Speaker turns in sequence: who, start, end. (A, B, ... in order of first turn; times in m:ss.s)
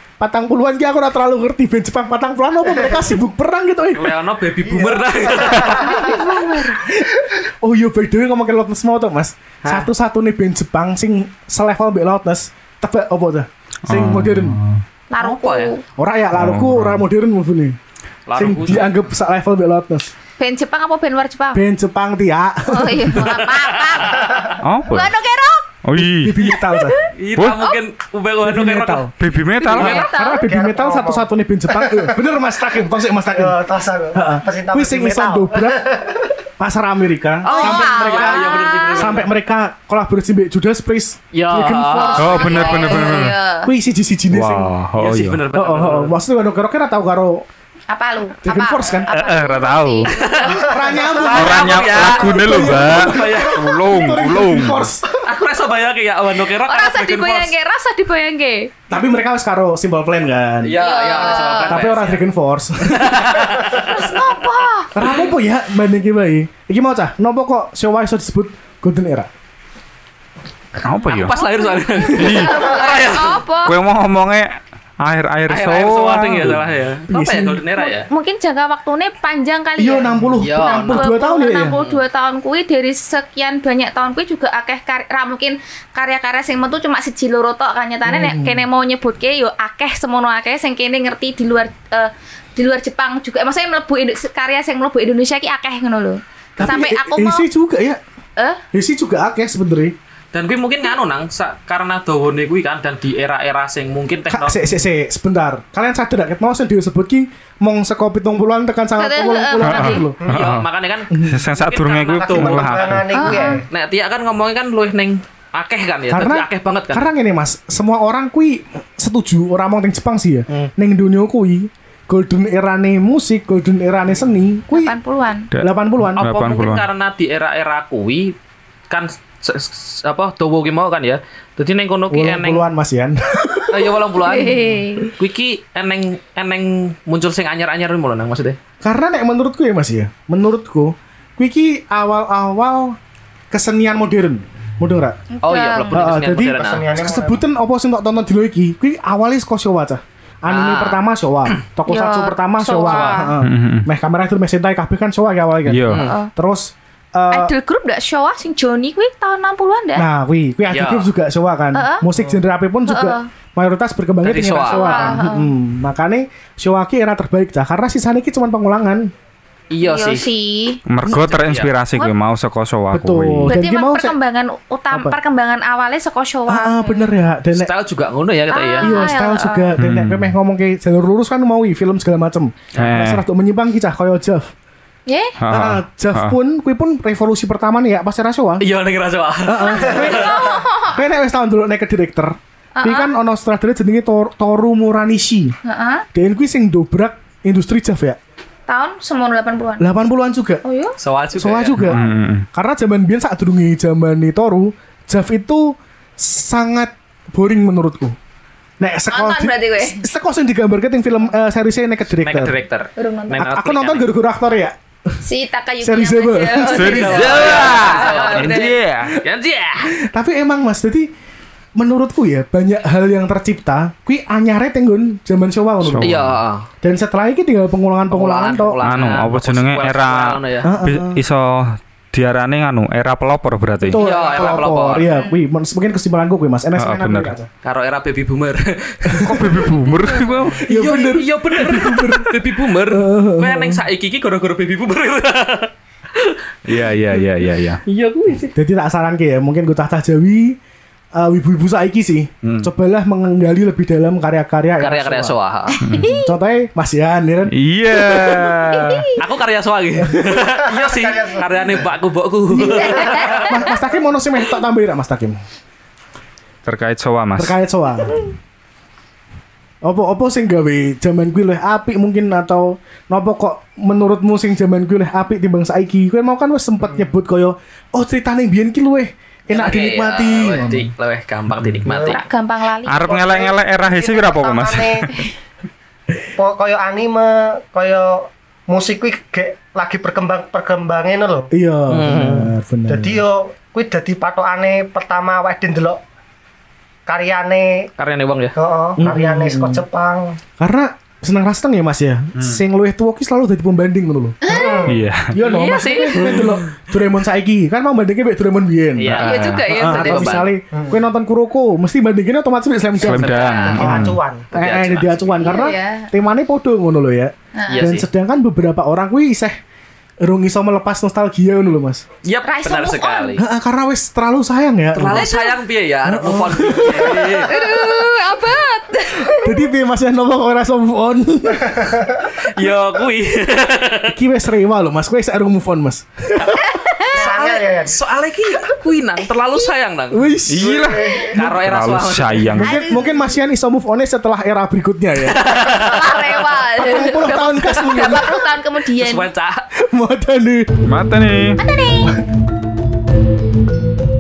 0:00.2-0:04.2 A
0:03.9-0:06.0 B
0:04.6-0:05.9 C
0:05.5-0:14.6 A
0:05.6-0:06.8 D
0:09.6-0:09.9 B
0:13.9-0:14.8 E
0:15.1-0:15.8 D
0:15.2-0:15.7 B
0:16.0-0:17.8 A
0:16.3-0:17.0 E
0:18.3-0:18.9 B
0:18.3-0:20.1 A
0:20.4-0:21.6 D
0:21.5-0:23.2 A
0:22.6-0:25.7 D
0:23.2-0:24.5 B
0:24.6-0:25.1 E
0:25.8-0:26.4 E
0:26.0-0:27.0 A
0:26.6-0:27.8 D
0:27.1-0:30.1 B
0:27.3-0:27.6 E
0:28.4-0:29.1 A
0:29.2-0:30.0 E
0:29.7-0:30.5 D
0:30.0-0:33.6 A
0:30.4-0:36.2 C
0:34.1-0:35.9 A
0:36.6-0:42.6 A
0:37.4-0:39.3 B
0:37.4-0:39.1 D
0:41.3-0:43.1 B
0:41.9-0:43.7 D
0:42.2-0:43.4 E
0:43.6-0:44.7 A
0:44.3-0:45.4 E
0:45.0-0:46.2 B
0:45.5-0:47.4 A
0:47.9-0:50.9 D
0:48.4-0:49.1 A
0:49.1-0:50.3 E
0:50.1-0:53.7 B
0:50.6-0:55.0 A
0:51.0-0:51.3 C
0:51.3-0:54.9 E
0:55.2-0:57.5 B
0:56.6-0:58.7 D
0:58.9-1:00.8 A
1:00.6-1:02.2 B
1:00.8-1:01.8 D
1:01.6-1:03.5 A
1:02.9-1:04.3 B
1:03.7-1:04.9 D
1:04.9-1:09.3 A
1:10.8-1:11.4 E
1:11.0-1:13.4 B
1:11.2-1:13.8 D
1:12.2-1:12.7 E
1:13.6-1:16.6 E
1:15.5-1:18.1 B
1:17.1-1:17.6 A
1:17.8-1:37.5 D
1:19.8-1:21.8 A
1:20.3-1:21.1 B
1:21.7-1:22.0 B
1:28.0-1:28.6 A
1:36.6-1:38.0 A
1:38.7-1:39.9 A
1:40.3-1:44.7 B
1:44.3-1:50.2 A
1:49.0-1:50.0 D
1:49.6-1:53.1 E
1:50.2-1:50.5 C
1:50.3-1:57.1 B
1:51.1-1:51.5 A
1:52.2-1:53.6 C
1:53.1-1:53.6 D
1:56.1-2:04.9 A
2:04.7-2:05.5 D
2:05.5-2:06.8 E
2:05.6-2:06.2 A
2:06.2-2:08.3 B
2:08.9-2:12.6 B
2:12.1-2:14.0 A
2:13.7-2:18.6 B
2:14.2-2:15.1 D
2:18.8-2:23.0 A
2:23.5-2:25.2 A
2:25.4-2:26.0 D
2:25.4-2:26.9 B
2:25.9-2:37.5 A
2:26.5-2:27.4 C
2:30.5-2:31.6 B
2:31.8-2:33.3 D
2:32.8-2:33.3 B
2:33.4-2:33.9 E
2:35.6-2:36.1 E
2:35.9-2:36.2 B
2:35.9-2:36.3 D
2:37.3-2:40.1 D
2:39.9-2:49.1 A
2:40.7-2:41.1 B
2:41.7-2:42.1 D
2:42.8-2:43.3 D
2:44.2-2:45.2 B
2:44.7-2:45.5 D
2:49.7-2:50.2 B
2:49.8-2:50.8 D
2:50.8-2:53.5 E
2:51.0-2:51.7 B
2:52.9-2:54.1 A
2:53.5-2:57.1 D
2:54.9-2:55.2 A
2:56.5-2:57.7 A
2:57.5-2:59.1 B
2:58.5-2:59.8 D
2:58.8-3:04.5 A
2:59.8-3:00.3 E
3:02.8-3:03.2 E
3:05.1-3:05.4 D
3:05.4-3:06.4 E
3:05.5-3:08.6 A
3:08.6-3:10.5 B
3:09.4-3:15.5 A
3:09.6-3:11.0 D
3:12.8-3:13.1 D
3:15.6-3:16.0 D
3:16.1-3:18.2 A
3:18.7-3:19.9 D
3:19.8-3:20.6 A
3:20.6-3:20.9 D
3:21.0-3:22.0 B
3:21.3-3:28.2 A
3:21.8-3:22.4 E
3:28.8-3:32.6 A
3:29.1-3:30.0 D
3:32.2-3:34.1 B
3:33.0-3:33.4 D
3:33.4-3:35.2 A
3:35.2-3:38.8 D
3:35.8-3:37.4 A
3:36.7-3:39.2 E
3:36.8-3:39.9 B
3:40.0-3:41.1 A
3:41.8-3:46.3 A
3:45.8-3:46.3 E
3:46.0-3:46.7 B
3:46.8-3:48.8 A
3:48.1-3:50.7 B
3:48.8-3:54.0 E
3:50.6-3:51.2 A
3:53.8-3:57.5 A
3:53.9-3:55.2 B
3:55.1-3:55.3 D
3:56.8-3:57.3 E
3:57.6-3:59.3 B
3:59.0-3:59.7 A
3:59.2-4:00.7 E
3:59.7-4:00.5 D
4:00.6-4:03.8 A
4:00.6-4:07.3 B
4:06.7-4:07.8 E
4:07.8-4:08.5 B
4:08.5-4:10.6 A
4:11.1-4:15.4 A
4:12.4-4:12.7 E
4:14.8-4:15.8 B
4:15.7-4:16.3 D
4:15.8-4:16.2 E
4:16.2-4:17.5 A
4:17.5-4:19.2 E
4:18.1-4:19.2 D
4:19.2-4:23.7 B
4:20.0-4:20.4 A
4:20.4-4:21.8 C
4:22.5-4:25.4 A
4:22.6-4:23.6 D
4:26.6-4:27.6 E
4:27.4-4:28.3 A
4:29.8-4:40.9 A
4:39.5-4:42.2 B
4:41.6-4:41.8 E
4:41.8-4:42.2 C
4:42.0-4:43.1 D
4:42.9-4:45.2 E
4:43.0-4:45.1 C
4:46.4-4:51.5 C
4:51.5-4:53.3 A
4:51.9-4:52.5 B
4:52.9-4:56.0 C
4:57.1-4:57.9 C
4:58.0-4:58.6 B
4:58.5-5:00.4 C
4:59.0-4:59.8 A
5:00.6-5:04.4 A
5:04.4-5:04.9 D
5:04.4-5:05.0 C
5:04.8-5:05.4 E
5:05.3-5:19.6 A
5:05.4-5:06.7 B
5:05.4-5:06.4 D
5:09.0-5:10.5 B
5:09.1-5:09.7 E
5:09.2-5:10.5 D
5:10.7-5:11.0 C
5:13.0-5:14.2 E
5:13.0-5:13.9 B
5:13.7-5:14.5 C
5:14.5-5:15.3 B
5:15.4-5:16.1 D
5:17.5-5:17.9 D
5:17.7-5:18.1 B
5:20.2-5:22.0 A
5:22.2-5:23.4 B
5:22.4-5:23.4 D
5:23.4-5:25.2 A
5:24.9-5:27.5 B
5:25.1-5:25.6 D
5:26.0-5:27.7 A
5:27.5-5:29.6 D
5:29.2-5:32.1 A
5:32.5-5:34.2 B
5:34.1-5:36.6 A
5:36.6-5:37.2 D
5:37.1-5:40.3 B
5:37.1-5:38.0 C
5:40.1-5:41.0 A
5:40.5-5:42.8 E
5:40.6-5:41.4 C
5:41.3-5:42.6 B
5:42.5-5:45.4 A
5:42.6-5:43.3 D
5:45.2-5:46.2 B
5:45.5-5:49.3 D
5:46.8-5:48.4 A
5:49.0-5:49.7 B
5:49.9-5:50.7 A
5:50.8-5:51.6 E
5:51.6-5:52.1 D